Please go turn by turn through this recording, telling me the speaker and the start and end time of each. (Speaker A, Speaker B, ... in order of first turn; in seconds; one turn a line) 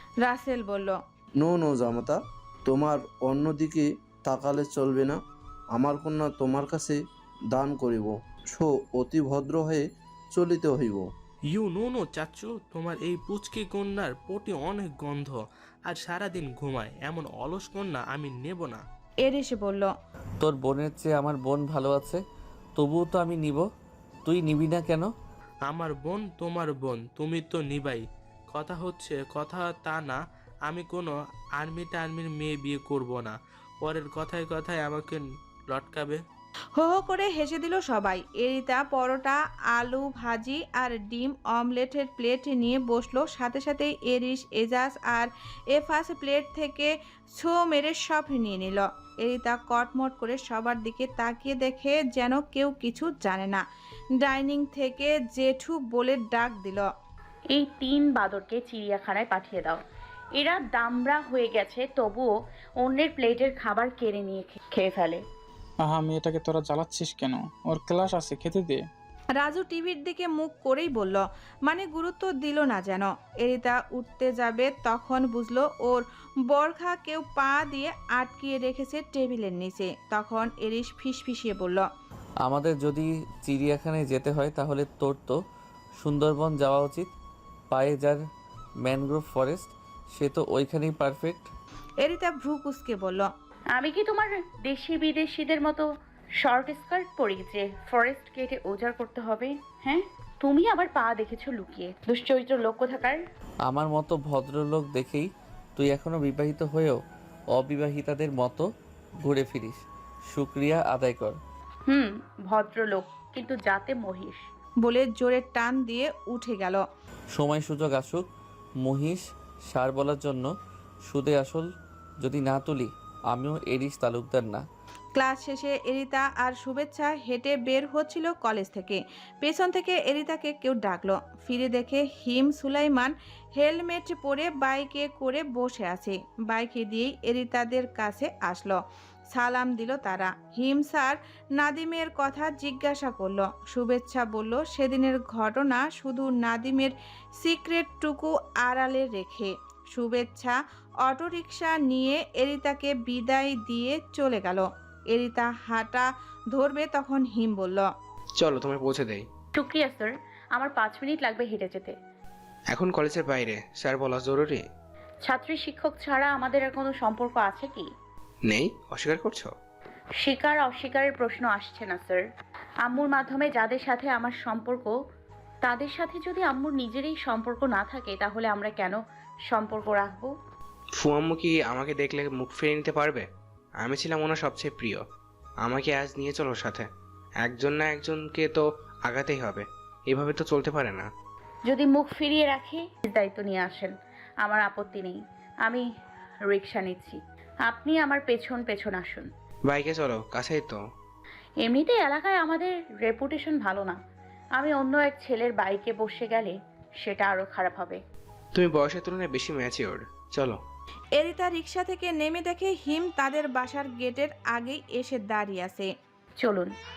Speaker A: 0.2-0.9
Speaker B: 1.4-5.2
Speaker B: 5.7-7.0
Speaker B: 7.5-11.1
Speaker C: 11.5-18.8
Speaker A: 19.2-19.9
Speaker D: 20.4-22.2
Speaker D: 22.8-23.6
Speaker D: 24.2-25.1
Speaker C: 25.7-36.2
Speaker A: 36.8-53.6
Speaker A: 54.2-56.9
Speaker E: 57.5-59.8
Speaker E: 60.4-65.2
Speaker F: 65.9-68.8
Speaker A: 69.4-81.8
Speaker D: 82.4-85.3
Speaker D: 86.0-87.1
Speaker D: 87.7-88.2
Speaker D: 88.8-91.5
Speaker A: 92.0-93.3
Speaker E: 93.7-95.9
Speaker E: 96.4-103.2
Speaker D: 103.6-107.0
Speaker D: 107.5-108.7
Speaker D: 109.2-111.4
Speaker E: 111.9-114.4
Speaker A: 114.8-116.8
Speaker D: 117.3-118.2
Speaker D: 118.8-120.5
Speaker D: 121.0-121.7
Speaker D: 122.2-124.6
Speaker A: 125.2-138.8
Speaker A: 139.3-157.9
Speaker G: 158.4-159.2
Speaker E: 159.6-161.9
Speaker G: 162.7-164.6
Speaker E: 165.2-167.9
Speaker G: 168.4-169.5
Speaker E: 170.2-172.2
Speaker E: 172.8-174.9
Speaker E: 175.6-180.3
Speaker G: 181.0-183.2
Speaker G: 183.8-185.0
Speaker G: 185.6-186.9
Speaker G: 187.4-191.1
Speaker E: 191.7-195.8
Speaker E: 196.5-199.3
Speaker G: 199.7-200.8
Speaker E: 201.6-204.0
Speaker E: 204.6-208.0
Speaker G: 208.6-210.6
Speaker A: 211.2-215.9
Speaker E: 216.4-216.7